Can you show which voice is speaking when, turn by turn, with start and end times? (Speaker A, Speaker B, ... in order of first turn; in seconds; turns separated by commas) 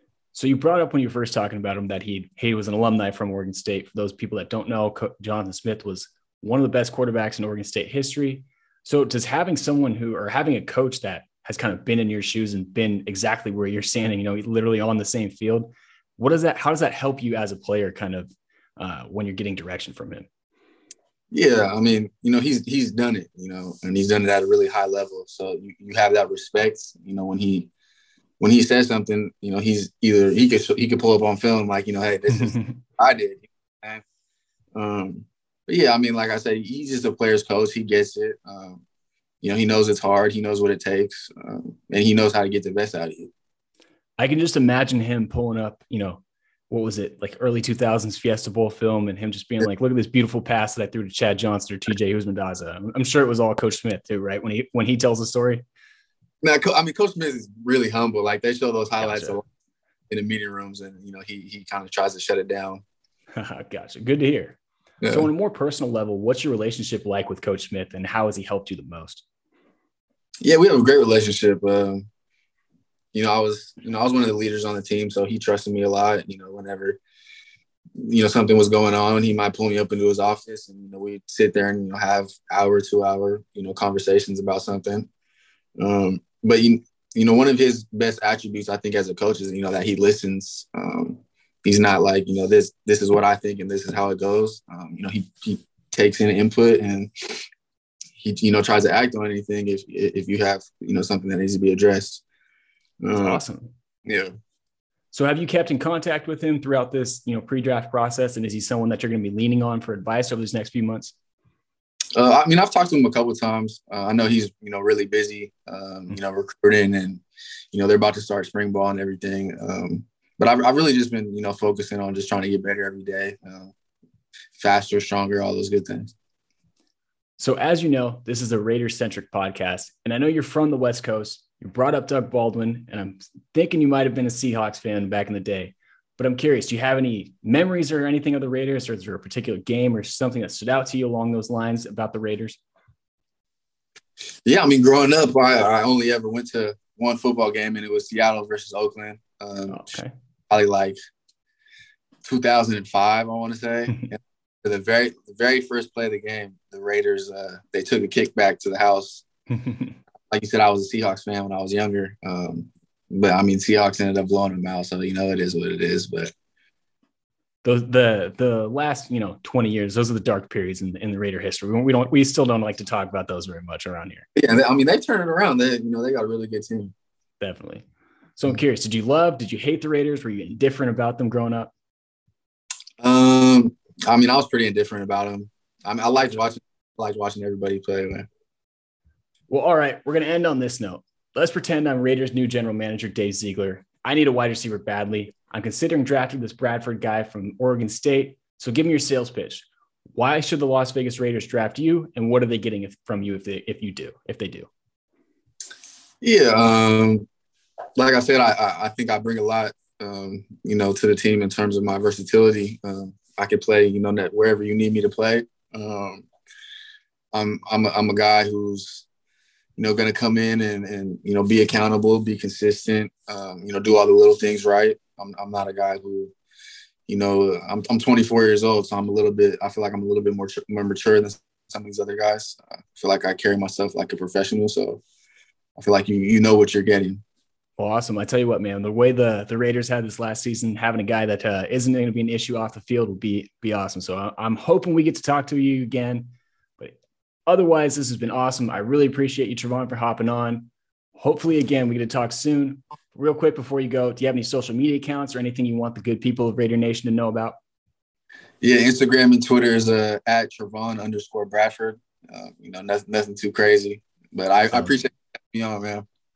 Speaker A: 0.3-20.3, Speaker B: 21.3-27.7, Speaker B: 28.4-34.0, Speaker A: 32.3-32.8, Speaker B: 34.7-38.8, Speaker B: 39.4-43.3, Speaker A: 44.2-55.6, Speaker B: 56.4-59.4, Speaker A: 59.0-59.4, Speaker B: 60.1-62.8, Speaker A: 63.4-64.6, Speaker B: 65.0-65.3, Speaker A: 65.1-69.2, Speaker B: 70.4-72.0, Speaker B: 73.1-77.0, Speaker B: 78.0-85.1, Speaker B: 85.8-97.4, Speaker B: 98.2-102.2, Speaker B: 103.0-103.4, Speaker A: 103.1-103.7, Speaker B: 104.0-104.3, Speaker A: 105.1-111.1, Speaker B: 112.2-123.7, Speaker B: 124.5-126.1, Speaker A: 127.4-142.6, Speaker B: 144.4-150.0, Speaker A: 149.7-150.1, Speaker B: 150.5-150.9, Speaker B: 152.2-159.2, Speaker A: 159.6-159.9, Speaker B: 160.3-166.3, Speaker A: 167.6-174.3, Speaker B: 174.3-176.9, Speaker A: 177.4-177.8, Speaker A: 178.4-181.7, Speaker B: 183.0-188.3, Speaker A: 189.5-204.7, Speaker B: 206.2-207.2, Speaker B: 208.0-216.3, Speaker B: 217.3-219.0, Speaker B: 219.8-226.3, Speaker B: 227.1-235.0, Speaker B: 235.8-237.2, Speaker A: 237.8-257.6, Speaker B: 258.6-266.0